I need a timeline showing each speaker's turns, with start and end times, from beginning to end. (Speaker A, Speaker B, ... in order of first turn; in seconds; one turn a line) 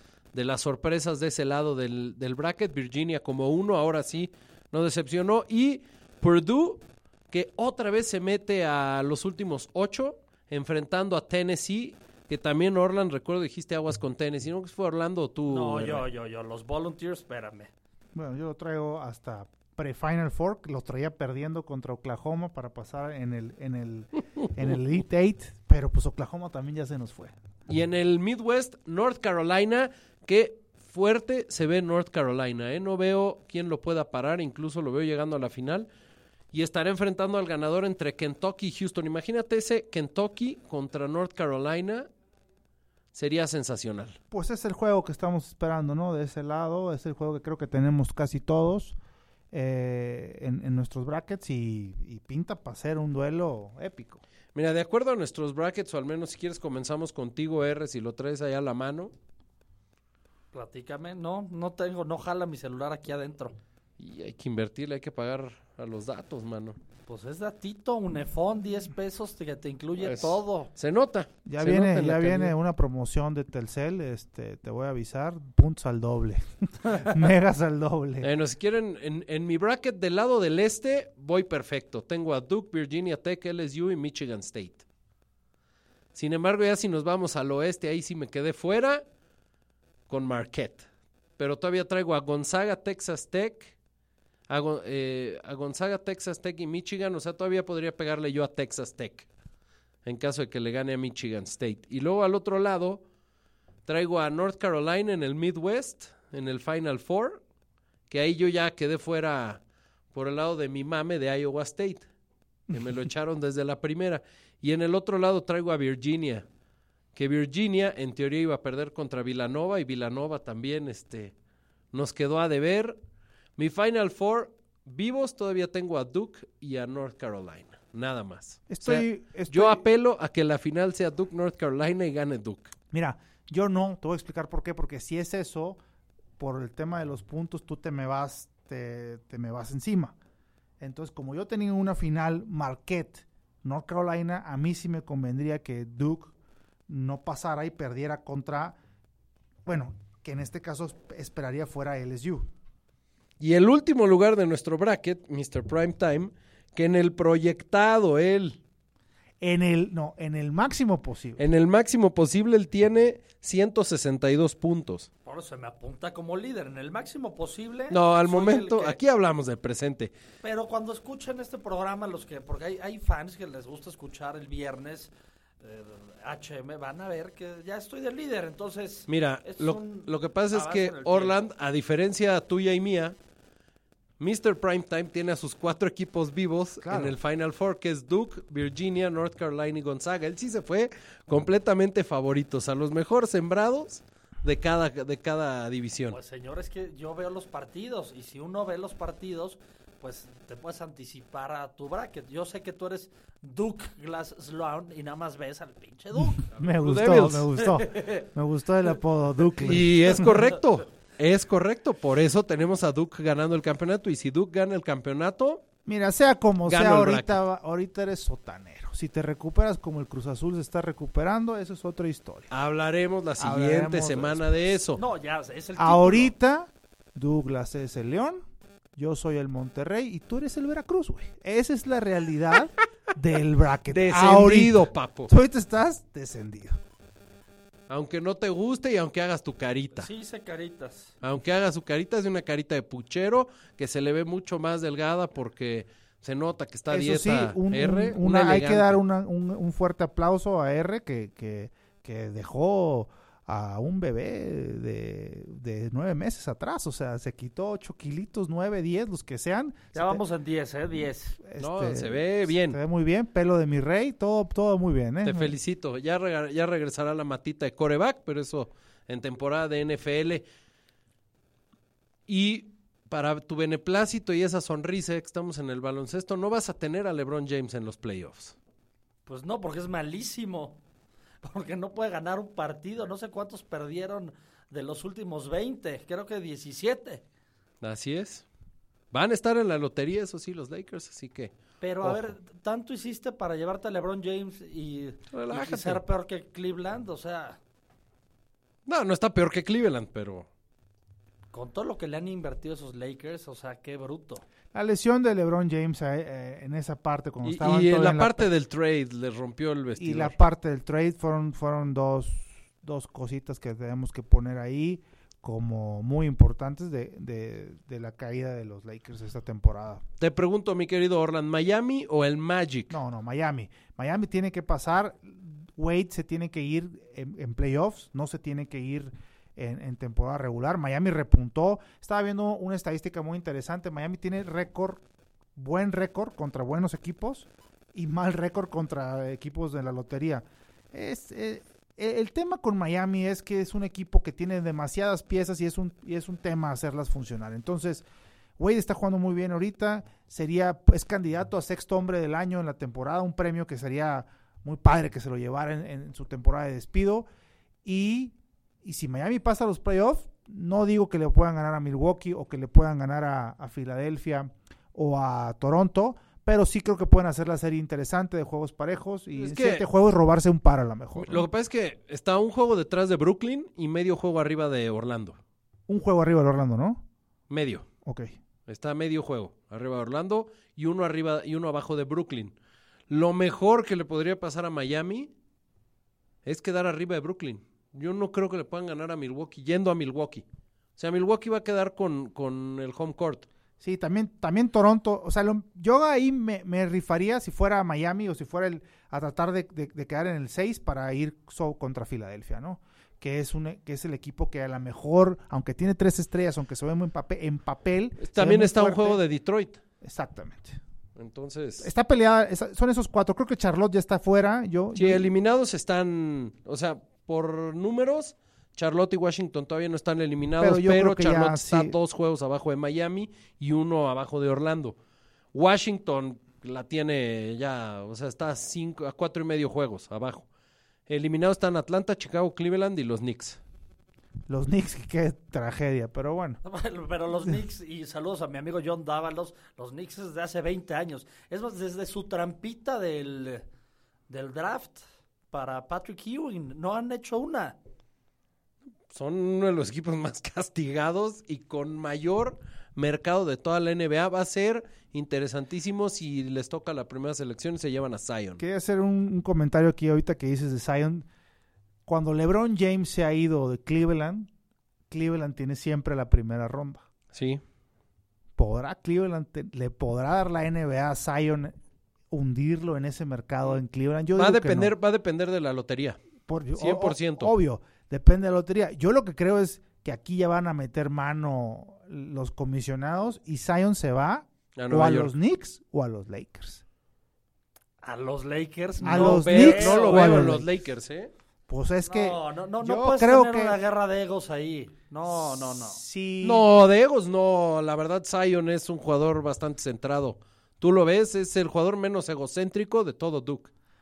Speaker A: 0.3-16.1
Speaker B: 15.5-17.7
Speaker C: 18.1-27.4
Speaker A: 27.7-35.9
Speaker A: 36.5-42.1
Speaker A: 43.1-44.1
Speaker C: 44.3-49.0
Speaker C: 49.5-54.2
Speaker A: 54.5-59.1
Speaker B: 60.5-63.5
Speaker A: 64.0-66.8
Speaker B: 67.1-70.7
Speaker A: 70.0-72.5
Speaker C: 71.5-78.3
Speaker A: 78.2-84.8
Speaker A: 86.1-89.0
Speaker A: 90.1-90.8
Speaker A: 91.4-93.7
Speaker A: 94.5-99.3
Speaker A: 100.0-103.0
Speaker A: 103.8-107.4
Speaker A: 108.1-109.6
Speaker A: 110.1-112.1
Speaker A: 112.7-116.5
Speaker A: 117.1-121.3
Speaker A: 121.9-123.0
Speaker A: 123.6-132.7
Speaker C: 128.7-129.8
Speaker C: 132.9-135.8
Speaker C: 136.4-140.1
Speaker C: 140.8-146.3
Speaker C: 146.9-148.8
Speaker C: 149.7-152.5
Speaker A: 153.4-158.6
Speaker C: 159.4-161.4
Speaker A: 161.4-165.1
Speaker B: 165.2-169.0
Speaker A: 167.9-170.1
Speaker B: 170.4-175.1
Speaker B: 175.6-181.4
Speaker A: 179.1-183.2
Speaker A: 184.2-196.2
Speaker C: 186.8-187.2
Speaker B: 196.1-206.5
Speaker C: 206.2-210.4
Speaker A: 206.7-207.5
Speaker B: 207.9-208.2
Speaker A: 209.6-215.6
Speaker C: 215.8-222.5
Speaker A: 216.7-217.4
Speaker A: 222.5-225.0
Speaker C: 223.4-224.6
Speaker B: 225.0-226.3
Speaker C: 225.8-228.4
Speaker C: 228.9-236.8
Speaker A: 233.9-235.3
Speaker A: 237.9-240.1
Speaker B: 239.9-241.1
Speaker A: 241.2-249.0
Speaker C: 246.9-260.2
Speaker B: 259.9-261.4
Speaker C: 261.4-265.5
Speaker A: 261.6-262.8
Speaker A: 265.2-270.4
Speaker A: 272.3-278.6
Speaker B: 279.2-280.8
Speaker B: 281.4-287.2
Speaker A: 287.8-288.4
Speaker A: 289.1-292.3
Speaker B: 291.8-297.6
Speaker A: 295.3-296.0
Speaker A: 298.9-300.5
Speaker B: 301.5-304.4
Speaker C: 304.7-308.5
Speaker A: 307.4-310.4
Speaker C: 310.0-320.0
Speaker A: 320.2-322.9
Speaker C: 322.9-335.0
Speaker C: 335.6-348.1
Speaker C: 348.6-357.3
Speaker C: 357.8-371.5
Speaker A: 369.3-369.8
Speaker A: 371.1-375.4
Speaker C: 375.9-377.0
Speaker A: 377.5-377.9
Speaker C: 378.0-378.3
Speaker A: 378.7-382.5
Speaker A: 383.1-385.3
Speaker A: 386.4-390.4
Speaker A: 391.0-393.4
Speaker C: 393.8-409.2
Speaker A: 408.2-409.8
Speaker C: 410.0-410.8
Speaker A: 411.1-411.9
Speaker C: 411.8-415.3
Speaker A: 414.9-424.9
Speaker C: 420.6-421.9
Speaker A: 425.5-430.4
Speaker A: 431.1-433.6
Speaker C: 434.5-436.6
Speaker B: 436.6-443.6
Speaker B: 444.3-447.8
Speaker A: 449.1-458.6
Speaker C: 458.6-461.3
Speaker C: 462.1-464.5
Speaker C: 465.1-467.1
Speaker A: 467.3-467.6
Speaker C: 468.6-471.8
Speaker C: 472.3-474.9
Speaker A: 474.3-476.2
Speaker C: 476.5-486.8
Speaker A: 476.7-477.5
Speaker A: 484.8-485.3
Speaker B: 488.0-490.4
Speaker C: 489.0-490.7
Speaker A: 489.0-491.3
Speaker C: 491.7-493.8
Speaker B: 492.1-496.0
Speaker C: 495.3-496.6
Speaker A: 496.4-503.7